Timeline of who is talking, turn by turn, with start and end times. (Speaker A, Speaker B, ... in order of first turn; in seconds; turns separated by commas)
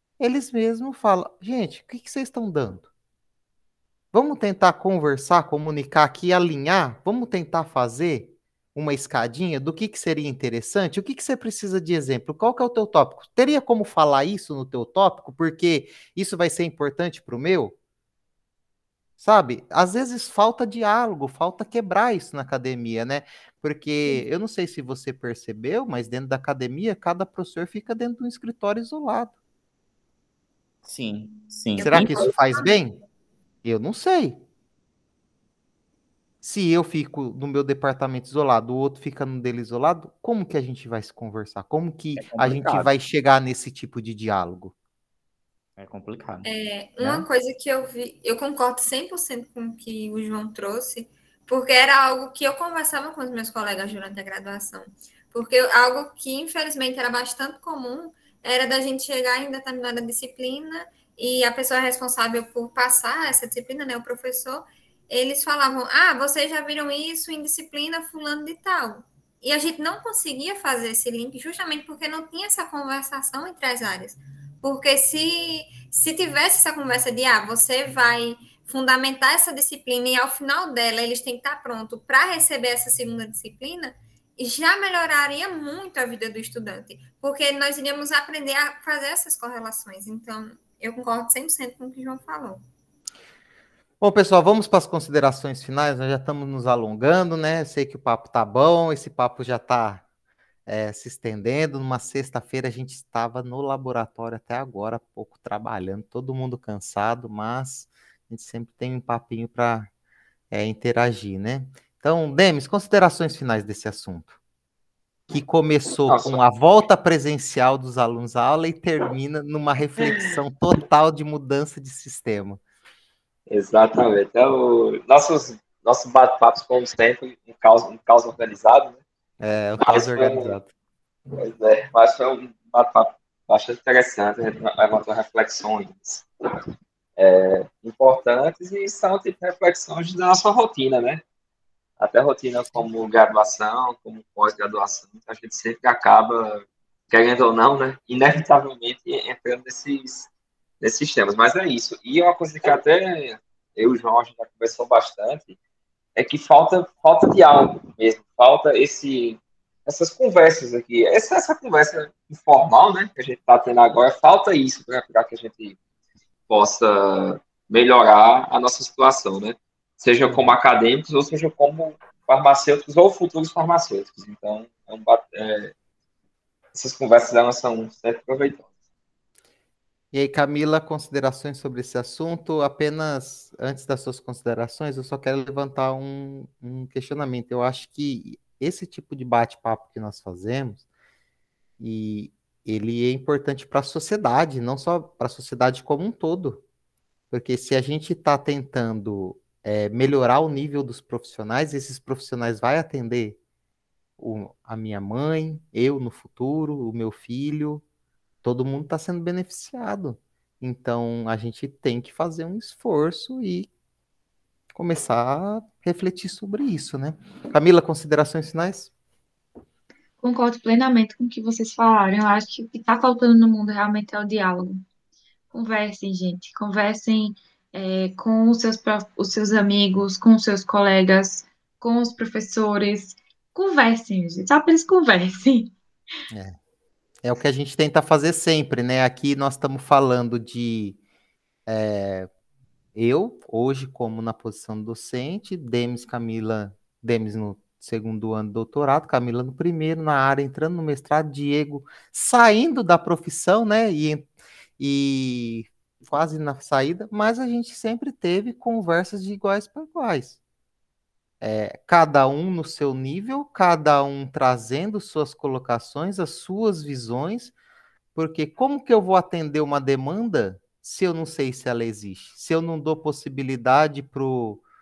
Speaker A: 0.2-2.9, Speaker A: 4.1-17.8, Speaker A: 19.2-29.3, Speaker B: 30.8-32.3, Speaker C: 31.8-32.8, Speaker A: 31.9-33.0, Speaker A: 33.6-34.4, Speaker A: 36.4-44.7, Speaker B: 42.2-42.9, Speaker B: 45.8-46.5, Speaker C: 46.4-92.6, Speaker A: 94.0-100.0, Speaker A: 100.7-109.9, Speaker A: 110.5-114.3, Speaker A: 115.3-122.6, Speaker D: 116.0-116.4, Speaker D: 123.5-129.0, Speaker A: 129.4-130.7, Speaker D: 129.8-130.5, Speaker D: 131.3-136.3, Speaker D: 137.2-141.2, Speaker D: 142.0-150.3, Speaker D: 150.8-155.6, Speaker D: 156.2-165.8, Speaker D: 166.5-175.7, Speaker A: 170.3-170.6, Speaker D: 176.7-178.7, Speaker A: 180.1-190.8, Speaker A: 191.8-196.6, Speaker A: 197.3-203.4, Speaker A: 204.2-207.8, Speaker A: 208.4-213.7, Speaker A: 214.7-218.9, Speaker E: 220.2-224.8, Speaker E: 225.5-235.7, Speaker A: 236.3-236.6, Speaker A: 237.2-241.0, Speaker A: 241.7-242.3, Speaker A: 242.9-260.4, Speaker A: 261.4-267.5, Speaker A: 268.1-274.6